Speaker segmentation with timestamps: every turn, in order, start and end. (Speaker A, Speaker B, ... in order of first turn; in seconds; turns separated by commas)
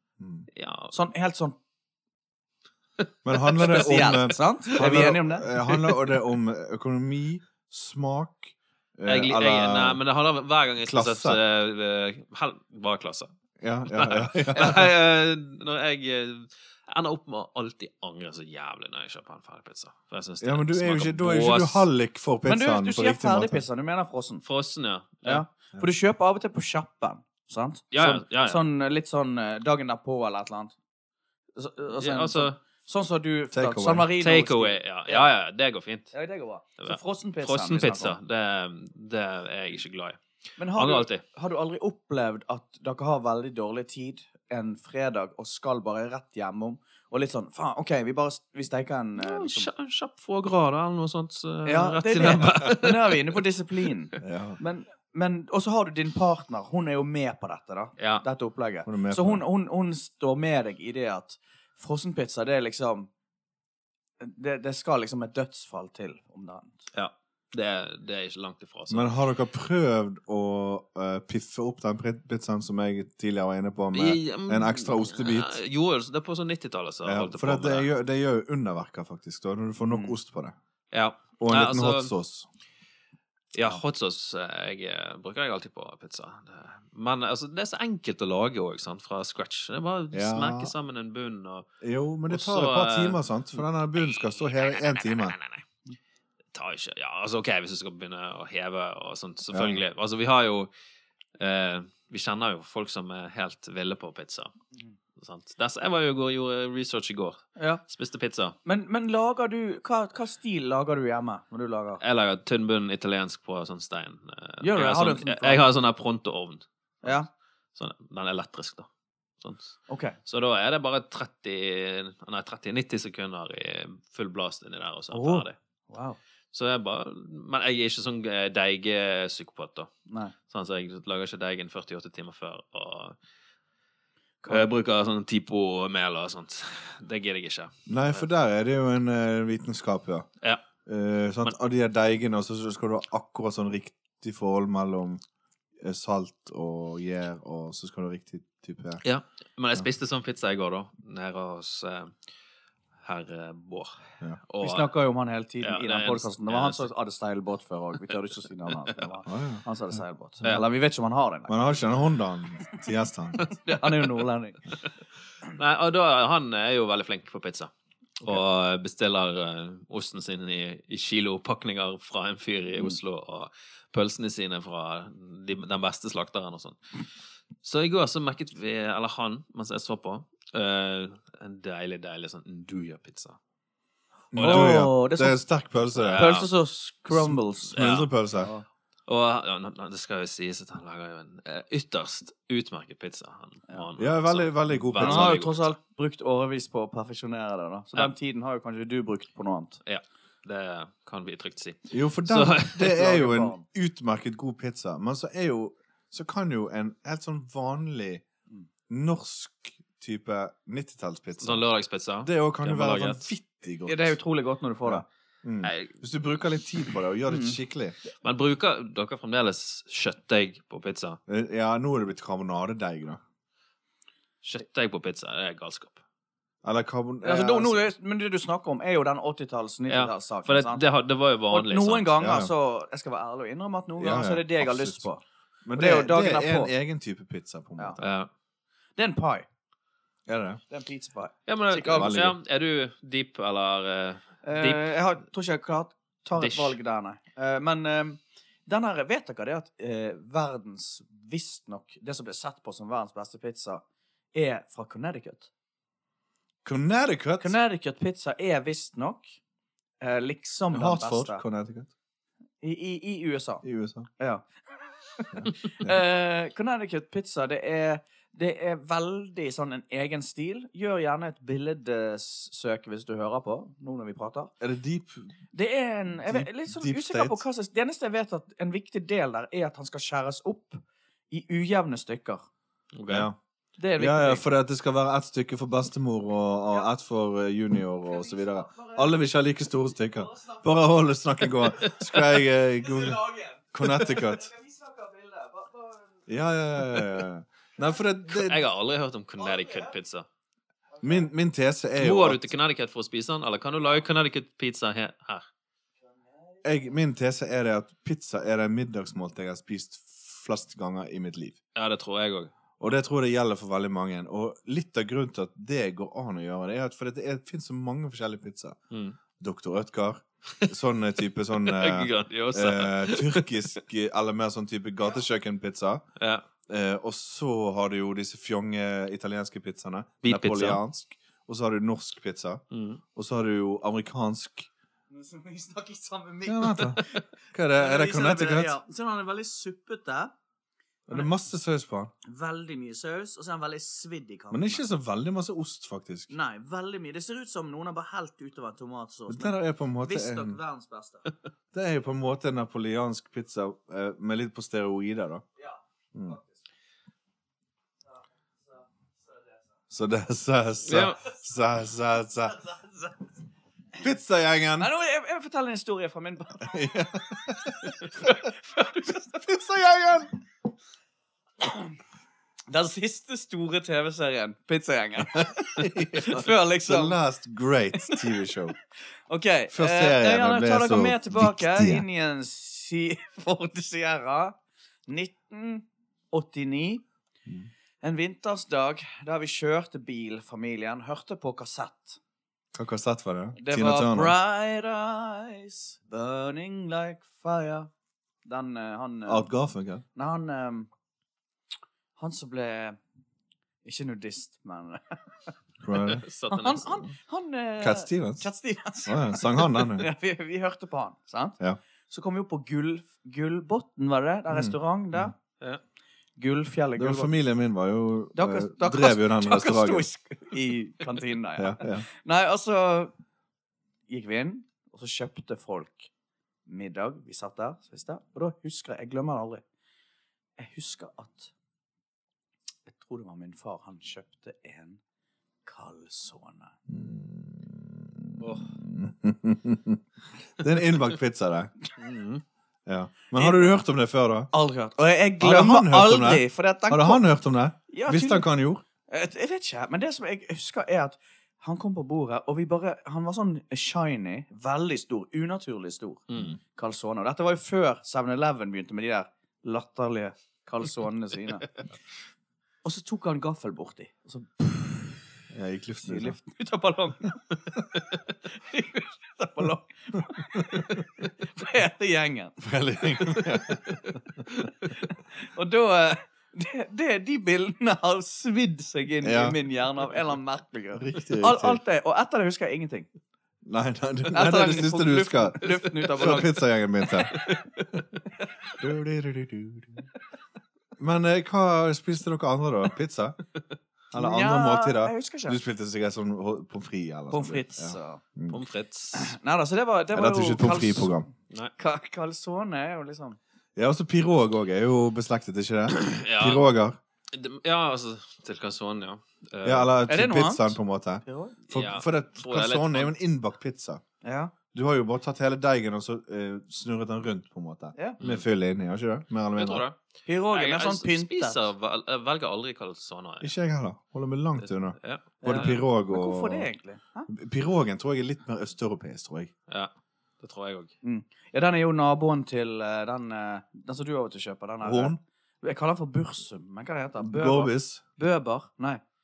Speaker A: 0.2-0.5, Speaker B: 0.5-0.9, Speaker C: 0.9-1.6, Speaker A: 3.2-10.0, Speaker C: 3.6-5.5, Speaker B: 3.6-4.1, Speaker B: 5.7-6.1, Speaker B: 9.1-13.3, Speaker A: 10.8-11.4, Speaker A: 13.6-14.9, Speaker B: 13.9-21.9, Speaker A: 20.4-23.6, Speaker C: 22.4-24.4, Speaker B: 24.4-25.4, Speaker C: 25.2-30.7, Speaker B: 27.9-28.6, Speaker C: 31.6-35.3, Speaker B: 32.0-32.6, Speaker A: 33.5-34.1, Speaker B: 34.2-36.1, Speaker C: 36.1-38.2, Speaker B: 36.8-40.2, Speaker C: 40.6-49.7, Speaker B: 40.7-41.2, Speaker B: 49.2-53.4, Speaker C: 51.6-63.1, Speaker A: 54.2-54.6, Speaker B: 58.0-58.2, Speaker A: 58.9-59.4, Speaker C: 64.2-66.8, Speaker B: 66.9-69.1, Speaker A: 68.9-75.6, Speaker B: 73.9-77.9, Speaker A: 77.0-80.5, Speaker C: 79.9-80.2, Speaker B: 80.9-82.1, Speaker A: 81.4-82.5, Speaker B: 83.5-91.7, Speaker A: 90.1-90.7, Speaker A: 91.8-95.3, Speaker B: 92.3-93.2, Speaker B: 94.0-95.6, Speaker B: 96.5-100.7, Speaker A: 99.5-99.8, Speaker B: 101.4-104.5, Speaker B: 105.2-108.5, Speaker C: 107.6-107.8, Speaker C: 108.6-112.0, Speaker B: 112.0-117.2, Speaker C: 114.6-115.7, Speaker B: 117.7-118.9, Speaker B: 119.4-125.5, Speaker C: 119.9-120.2, Speaker C: 125.1-126.2, Speaker B: 126.5-129.9, Speaker C: 130.1-130.3, Speaker B: 130.4-133.2, Speaker B: 134.5-138.2, Speaker A: 137.9-140.3, Speaker A: 140.8-145.2, Speaker A: 145.8-149.0, Speaker B: 149.0-152.1, Speaker B: 153.0-154.9, Speaker C: 154.6-161.8, Speaker B: 155.6-156.9, Speaker A: 159.2-159.6, Speaker A: 161.5-163.5, Speaker C: 163.5-164.6, Speaker B: 165.4-176.8, Speaker B: 177.6-183.4, Speaker A: 184.3-186.3, Speaker B: 184.3-184.8, Speaker C: 184.4-185.4, Speaker B: 185.9-186.5, Speaker C: 186.2-187.8, Speaker A: 187.1-188.5, Speaker B: 187.7-188.1, Speaker C: 188.4-188.6, Speaker B: 189.1-195.7, Speaker A: 194.0-195.4, Speaker C: 195.0-199.8, Speaker B: 199.8-202.9, Speaker A: 201.9-208.2, Speaker C: 202.8-203.6, Speaker A: 208.9-211.6, Speaker B: 211.4-213.3, Speaker A: 212.2-214.2, Speaker C: 213.9-215.1, Speaker A: 214.8-218.0, Speaker B: 215.6-215.9, Speaker C: 217.3-217.6, Speaker B: 218.2-221.2, Speaker A: 221.3-223.2, Speaker B: 224.4-226.0, Speaker A: 226.6-227.8, Speaker C: 227.2-230.8, Speaker B: 229.9-232.2, Speaker C: 231.5-235.2, Speaker A: 232.2-232.5, Speaker A: 234.0-235.1, Speaker A: 235.6-238.1, Speaker C: 235.7-236.7, Speaker B: 238.0-238.3, Speaker C: 239.0-239.5, Speaker A: 240.3-240.6, Speaker C: 240.7-242.2, Speaker B: 241.5-244.9, Speaker A: 241.9-242.4, Speaker C: 244.4-253.8, Speaker B: 246.4-246.8, Speaker C: 254.3-255.5, Speaker A: 256.6-257.6, Speaker C: 257.4-259.4, Speaker C: 260.0-261.4, Speaker A: 260.7-261.9, Speaker C: 262.6-263.6, Speaker A: 263.6-264.1, Speaker C: 264.2-264.4, Speaker C: 265.1-274.5, Speaker A: 265.3-266.0, Speaker A: 274.6-275.4, Speaker C: 275.5-282.4, Speaker A: 276.1-277.4, Speaker B: 282.9-283.3, Speaker A: 283.1-283.4, Speaker C: 283.8-284.4, Speaker A: 284.0-294.5, Speaker C: 288.4-289.0, Speaker C: 292.9-296.1, Speaker A: 296.3-298.6, Speaker B: 298.3-300.2, Speaker C: 299.4-299.9, Speaker A: 301.0-302.5, Speaker B: 302.0-305.4, Speaker A: 306.6-311.6, Speaker B: 311.7-312.5, Speaker A: 312.8-318.8, Speaker B: 318.9-319.2, Speaker A: 319.4-326.0, Speaker B: 321.6-323.5, Speaker B: 326.2-326.4, Speaker A: 326.7-332.6, Speaker B: 330.2-330.8, Speaker B: 332.7-333.0, Speaker A: 333.1-334.7, Speaker C: 335.1-340.3, Speaker A: 336.4-338.7, Speaker A: 341.1-342.1, Speaker C: 342.2-344.8, Speaker A: 344.5-346.3, Speaker C: 346.3-351.3, Speaker A: 349.3-350.6, Speaker A: 351.7-355.4, Speaker C: 355.6-356.5, Speaker A: 359.9-362.6, Speaker B: 360.9-361.2, Speaker C: 362.6-363.1, Speaker A: 364.0-364.9, Speaker C: 364.8-366.9, Speaker A: 366.6-368.4, Speaker C: 368.2-369.4, Speaker A: 369.3-370.3, Speaker C: 371.6-371.9, Speaker C: 372.7-377.2, Speaker A: 375.3-378.7, Speaker C: 379.3-387.0, Speaker A: 379.7-382.0, Speaker C: 388.0-392.2, Speaker A: 392.7-394.3, Speaker C: 393.6-397.9, Speaker C: 398.4-399.5, Speaker A: 399.2-400.0, Speaker C: 400.1-400.9, Speaker C: 402.2-403.0, Speaker C: 403.8-405.2, Speaker A: 405.8-406.2, Speaker B: 406.1-406.9, Speaker C: 406.5-415.3, Speaker A: 407.8-408.4, Speaker A: 409.1-410.1, Speaker A: 414.5-415.3, Speaker C: 416.4-417.3, Speaker A: 416.9-420.1, Speaker C: 418.3-423.1, Speaker A: 421.6-422.1, Speaker C: 424.1-426.1, Speaker C: 426.7-429.6, Speaker C: 430.6-431.5, Speaker C: 432.9-435.0, Speaker C: 435.6-436.7, Speaker A: 436.9-440.0, Speaker B: 438.4-438.7, Speaker A: 440.6-441.7, Speaker B: 442.0-442.4, Speaker A: 442.9-444.5, Speaker C: 443.3-443.8, Speaker C: 444.5-447.2, Speaker A: 445.4-448.8, Speaker C: 447.9-448.5, Speaker C: 449.1-461.7, Speaker B: 456.3-456.6, Speaker C: 462.8-465.2, Speaker A: 465.5-466.4, Speaker C: 466.0-467.5, Speaker C: 468.5-472.6, Speaker A: 470.5-470.9, Speaker A: 472.6-474.4, Speaker C: 475.1-483.1, Speaker A: 479.2-479.6, Speaker A: 480.9-481.8, Speaker A: 483.6-487.4, Speaker C: 484.3-486.6, Speaker B: 487.3-487.9, Speaker A: 488.8-490.1, Speaker A: 491.0-493.4, Speaker A: 494.1-498.6, Speaker C: 494.1-495.6, Speaker C: 497.3-498.2, Speaker B: 498.5-499.4, Speaker C: 499.1-501.1, Speaker A: 500.1-501.3, Speaker C: 501.8-503.4, Speaker A: 503.8-507.0, Speaker B: 505.9-506.7, Speaker B: 507.3-509.9, Speaker A: 509.6-514.0, Speaker C: 510.1-511.6, Speaker B: 511.7-513.1, Speaker C: 514.2-514.5, Speaker A: 514.7-519.8, Speaker B: 518.2-518.4, Speaker B: 519.5-520.0, Speaker C: 520.2-521.6, Speaker B: 520.5-523.5, Speaker A: 523.4-526.7, Speaker B: 525.0-525.8, Speaker C: 525.4-527.3, Speaker A: 527.3-529.5, Speaker B: 529.7-530.9, Speaker C: 531.0-539.0, Speaker A: 534.8-535.2, Speaker A: 537.2-538.0